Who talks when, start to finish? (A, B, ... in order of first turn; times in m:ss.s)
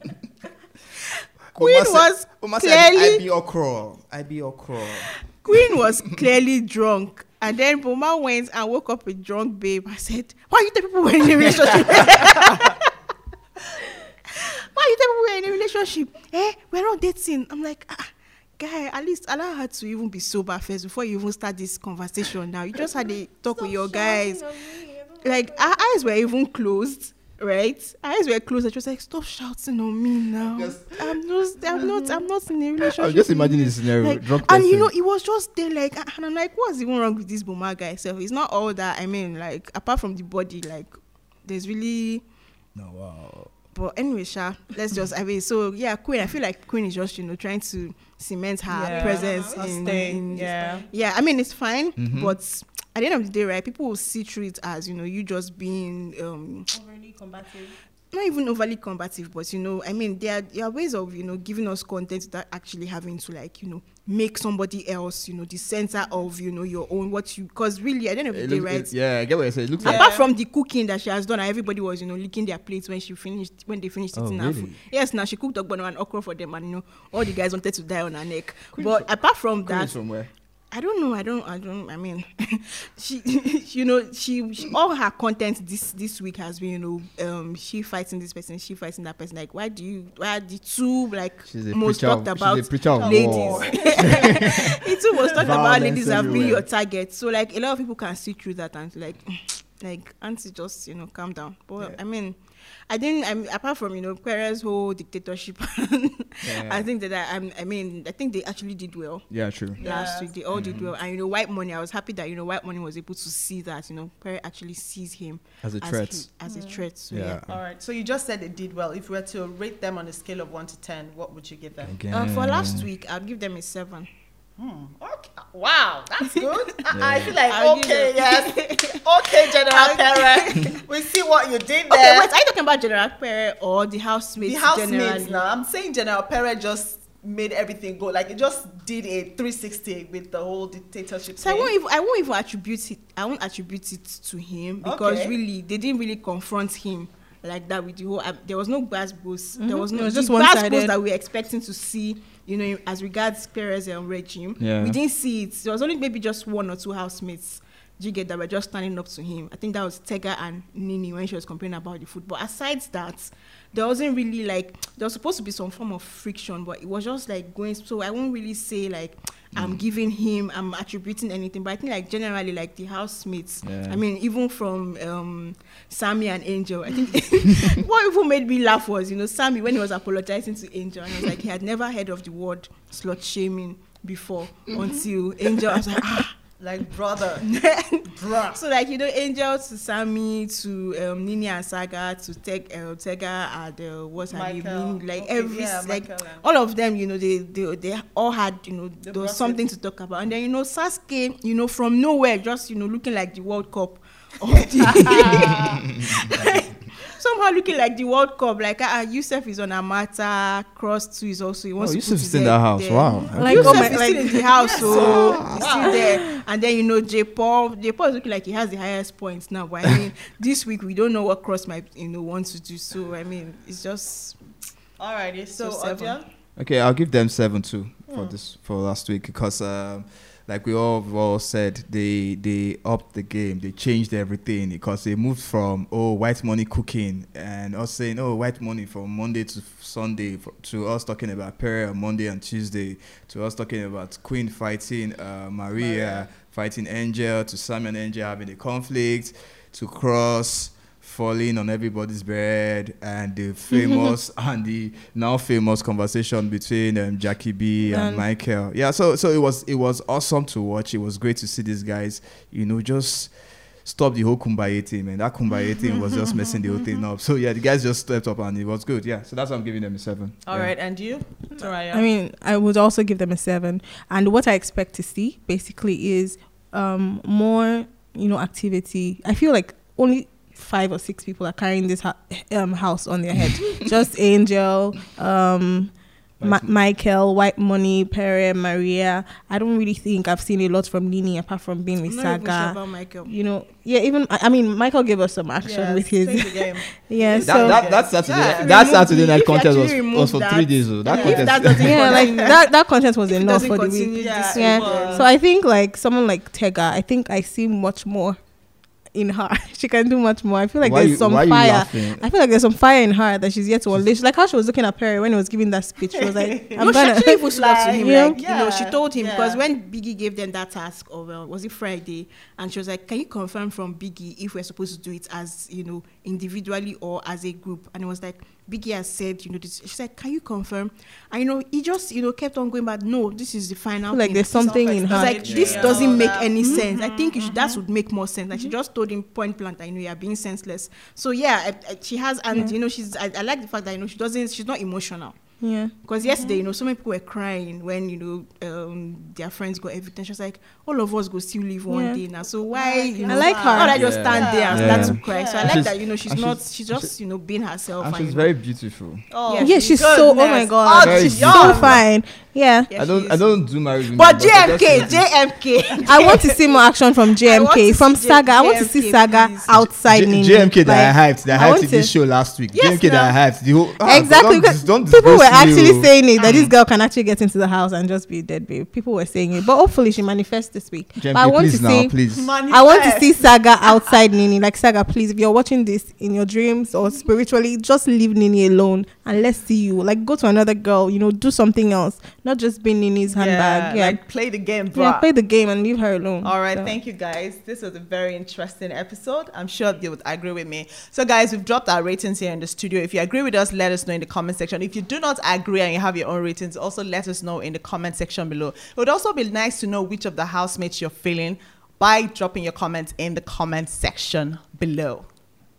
0:01.5-0:05.1 A
0:01.5-0:03.2 B
0:05.1-0:12.9 B
0:14.3-0:24.4 B
0:23.5-0:26.0 C
0:25.2-0:42.2 B
0:30.4-0:31.2 A
0:32.8-0:34.9 A
0:42.7-0:43.5 A
0:43.7-0:56.7 B
0:48.7-0:50.8 D
0:48.8-0:50.9 C
0:52.0-0:52.4 A
0:56.7-0:57.8 C
0:58.1-1:08.9 B
1:08.3-1:10.1 A
1:09.8-1:10.3 D
1:09.8-1:20.0 B
1:14.1-1:14.8 A
1:18.7-1:20.3 A
1:20.7-1:57.4 B
1:31.5-1:34.8 A
1:33.0-1:34.6 D
1:35.3-1:36.6 A
1:46.4-1:46.9 A
1:49.3-1:49.8 A
1:49.8-1:50.3 D
1:50.5-1:50.9 A
1:55.6-1:56.2 A
1:56.5-1:56.8 C
1:57.1-1:57.6 A
1:57.5-2:01.9 D
2:01.8-2:02.9 A
2:02.1-2:04.1 B
2:04.6-2:12.3 D
2:06.9-2:07.4 A
2:07.4-2:10.8 B
2:11.9-2:15.4 B
2:14.4-2:21.7 D
2:21.4-3:06.3 B
2:24.8-2:25.4 D
2:29.6-2:30.9 C
2:34.6-2:35.0 A
2:49.5-2:49.8 A
2:53.6-2:54.0 A
3:06.6-3:07.5 D
3:07.4-3:44.4 B
3:08.0-3:08.6 D
3:14.3-3:16.4 D
3:19.0-3:19.6 D
3:24.9-3:25.8 D
3:31.8-3:34.1 A
3:33.3-3:34.8 C
3:34.6-3:36.0 D
3:34.9-3:35.7 A
3:35.9-3:36.2 C
3:45.0-3:46.2 D
3:45.5-3:46.2 B
3:46.6-4:30.8 A
4:05.8-4:06.3 D
4:13.7-4:14.1 C
4:17.8-4:18.2 C
4:30.4-4:32.0 D
4:31.9-4:57.8 C
4:46.4-4:46.7 A
4:52.0-4:53.3 B
4:55.6-4:59.0 D
4:57.4-5:02.2 A
4:58.4-5:02.6 B
5:01.1-5:02.5 D
5:01.8-5:08.4 C
5:03.3-5:05.3 B
5:04.2-5:05.3 D
5:09.1-5:17.4 C
5:10.8-5:12.3 A
5:16.2-5:19.6 D
5:16.8-5:45.4 B
5:17.9-5:18.4 C
5:34.1-5:35.7 C
5:34.7-5:37.7 D
5:35.4-5:36.4 A
5:45.6-5:45.9 C
5:46.0-5:58.4 B
5:46.2-5:46.6 D
5:51.9-5:52.2 C
5:52.7-5:55.9 D
5:53.3-5:54.0 C
5:53.9-5:57.1 A
5:58.0-5:59.3 A
5:59.3-6:02.0 D
5:59.5-6:00.0 B
5:59.6-6:02.9 C
6:01.0-6:02.0 A
6:02.9-6:06.8 B
6:02.9-6:05.5 A
6:06.0-6:12.1 C
6:07.4-6:09.8 B
6:09.8-6:16.7 A
6:12.7-6:13.4 B
6:14.0-6:22.1 C
6:16.4-6:16.7 D
6:21.2-6:22.5 A
6:22.3-6:24.1 D
6:22.7-6:34.2 C
6:33.3-6:35.3 D
6:34.9-6:37.0 C
6:36.4-6:55.3 D